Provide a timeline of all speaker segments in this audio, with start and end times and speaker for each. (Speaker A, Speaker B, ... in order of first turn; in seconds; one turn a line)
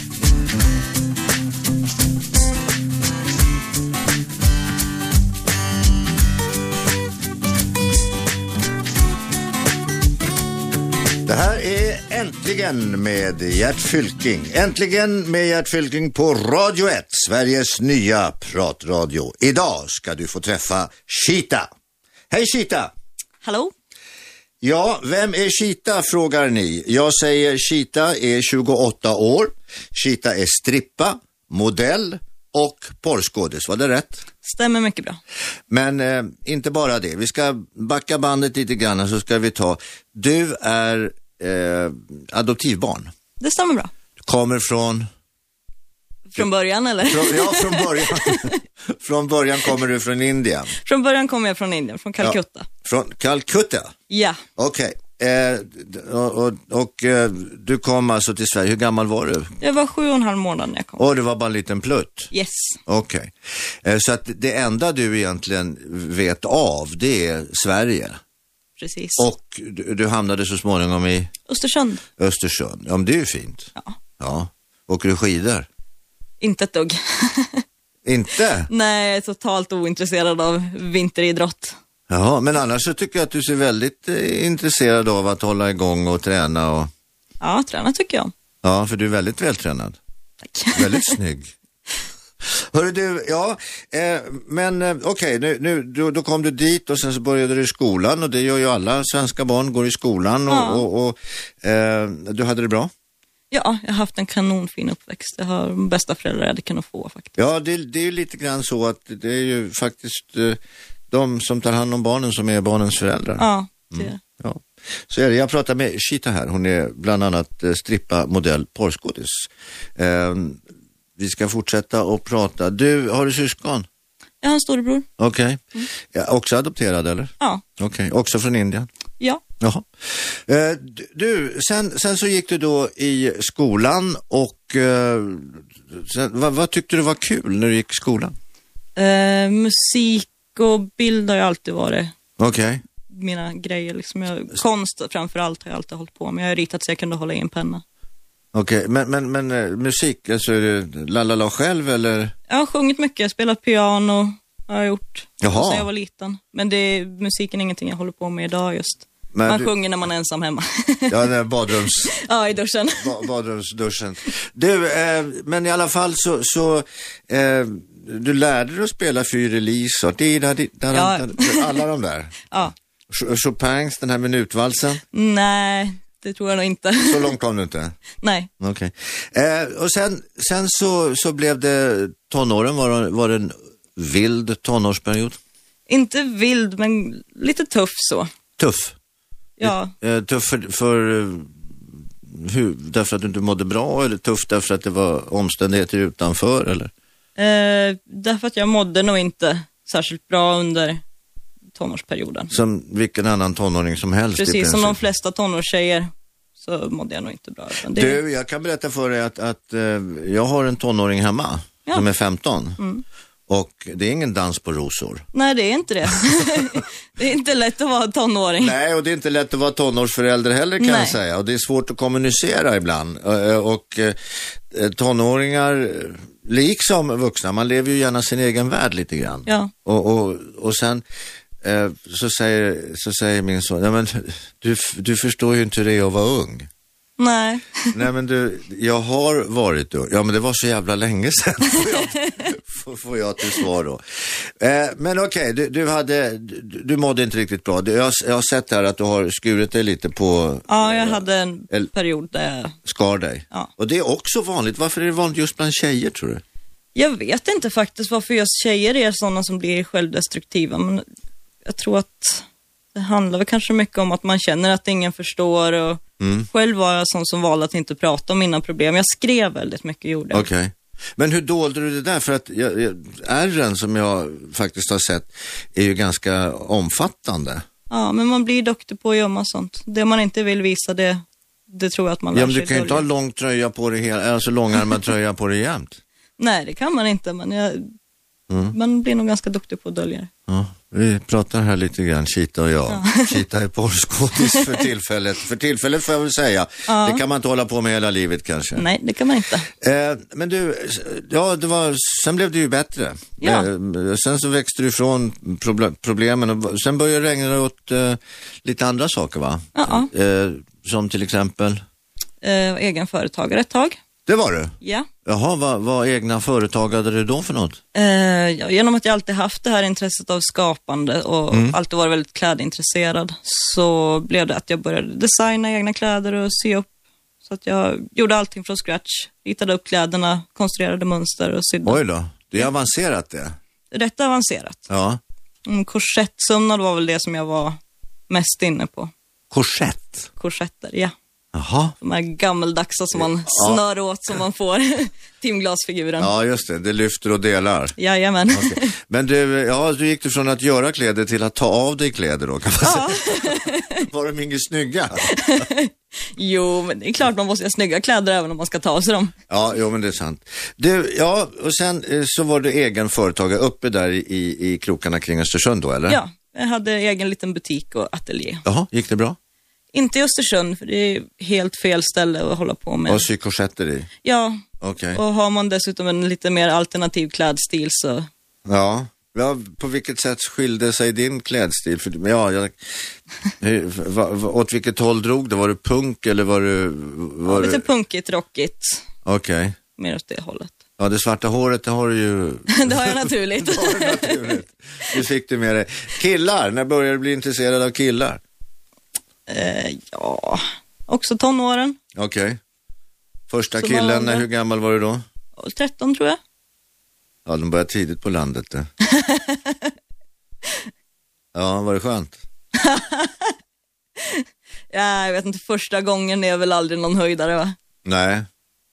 Speaker A: 11.2-21.7
Speaker A: 22.3-22.9
Speaker B: 23.4-23.7
Speaker A: 24.6-34.3
Speaker B: 34.4-35.2
Speaker A: 35.7-43.1
Speaker B: 43.4-43.9
Speaker A: 44.2-45.1
Speaker B: 46.3-48.6
Speaker A: 47.1-50.7
Speaker B: 50.8-52.7
Speaker A: 52.2-53.9
Speaker B: 54.1-54.4
Speaker A: 54.6-59.5
Speaker B: 59.6-61.0
Speaker A: 61.0-62.3
Speaker B: 62.3-62.8
Speaker A: 62.9-63.3
Speaker A: 63.8-68.2
Speaker B: 68.8-69.2
Speaker A: 69.2-71.3
Speaker B: 71.5-72.0
Speaker A: 72.2-75.7
Speaker B: 76.4-77.6
Speaker A: 78.0-78.7
Speaker B: 78.7-81.8
Speaker A: 82.1-86.9
Speaker B: 87.4-88.3
Speaker A: 88.6-90.0
Speaker B: 90.5-91.2
Speaker A: 90.7-91.5
Speaker A: 92.4-102.9
Speaker B: 100.5-100.8
Speaker B: 103.5-107.4
Speaker A: 107.4-110.6
Speaker A: 111.1-120.6
Speaker B: 113.4-114.2
Speaker A: 121.2-123.9
Speaker B: 124.4-125.1
Speaker A: 125.2-128.9
Speaker A: 129.6-138.3
Speaker B: 138.9-142.1
Speaker A: 142.4-142.8
Speaker B: 143.1-147.8
Speaker A: 148.5-152.3
Speaker B: 152.5-161.2
Speaker A: 155.4-155.9
Speaker A: 159.3-159.7
Speaker A: 161.1-162.1
Speaker B: 161.8-163.3
Speaker A: 163.0-175.0
Speaker B: 170.9-171.8
Speaker B: 175.1-177.3
Speaker A: 177.0-177.9
Speaker B: 178.2-178.5
Speaker A: 178.6-185.4
Speaker B: 185.9-188.3
Speaker A: 188.6-188.9
Speaker B: 189.6-189.9
Speaker A: 189.6-196.9
Speaker B: 197.4-201.0
Speaker B: 201.7-202.5
Speaker A: 202.5-205.0
Speaker B: 204.4-208.2
Speaker A: 207.8-212.8
Speaker B: 212.8-213.0
Speaker A: 213.5-215.2
Speaker B: 215.3-218.8
Speaker A: 218.6-231.0
Speaker B: 220.8-221.2
Speaker B: 229.4-229.7
Speaker A: 231.6-236.7
Speaker B: 237.2-237.9
Speaker A: 237.9-251.9
Speaker B: 241.7-242.5
Speaker B: 250.7-252.8
Speaker A: 252.8-256.4
Speaker B: 256.9-261.0
Speaker B: 261.6-270.5
Speaker A: 266.2-266.5
Speaker A: 270.3-277.6
Speaker B: 277.9-283.0
Speaker A: 282.3-286.0
Speaker B: 286.4-287.9
Speaker A: 288.5-288.7
Speaker B: 288.7-290.3
Speaker A: 290.5-298.8
Speaker B: 292.9-293.4
Speaker B: 294.4-294.8
Speaker B: 296.9-297.2
Speaker B: 298.8-299.7
Speaker A: 299.7-311.8
Speaker B: 303.4-303.7
Speaker B: 309.7-310.1
Speaker B: 312.4-314.0
Speaker A: 314.3-314.7
Speaker B: 314.8-315.1
Speaker A: 315.2-317.8
Speaker B: 317.9-326.9
Speaker A: 321.5-321.8
Speaker B: 327.4-332.0
Speaker A: 331.8-333.5
Speaker B: 333.9-334.8
Speaker A: 334.9-335.2
Speaker B: 335.6-339.1
Speaker A: 339.5-340.3
Speaker B: 340.4-341.1
Speaker A: 341.5-341.9
Speaker B: 342.0-346.3
Speaker A: 343.1-343.8
Speaker A: 346.2-347.9
Speaker B: 348.0-348.9
Speaker A: 348.5-355.6
Speaker B: 352.8-354.0
Speaker B: 355.2-359.3
Speaker A: 359.5-366.2
Speaker B: 366.1-368.6
Speaker A: 368.6-369.4
Speaker B: 369.9-373.3
Speaker A: 373.1-374.1
Speaker B: 374.2-374.6
Speaker A: 374.8-375.2
Speaker B: 375.1-378.3
Speaker A: 378.6-387.8
Speaker B: 387.4-389.0
Speaker A: 389.2-389.8
Speaker B: 390.0-390.8
Speaker A: 391.0-398.4
Speaker B: 392.7-394.6
Speaker B: 399.5-402.0
Speaker A: 402.1-402.6
Speaker A: 403.5-405.2
Speaker B: 403.8-404.4
Speaker B: 405.6-406.4
Speaker A: 407.4-408.9
Speaker B: 409.1-409.9
Speaker A: 411.5-412.4
Speaker B: 412.7-413.5
Speaker B: 414.2-417.7
Speaker A: 418.0-418.5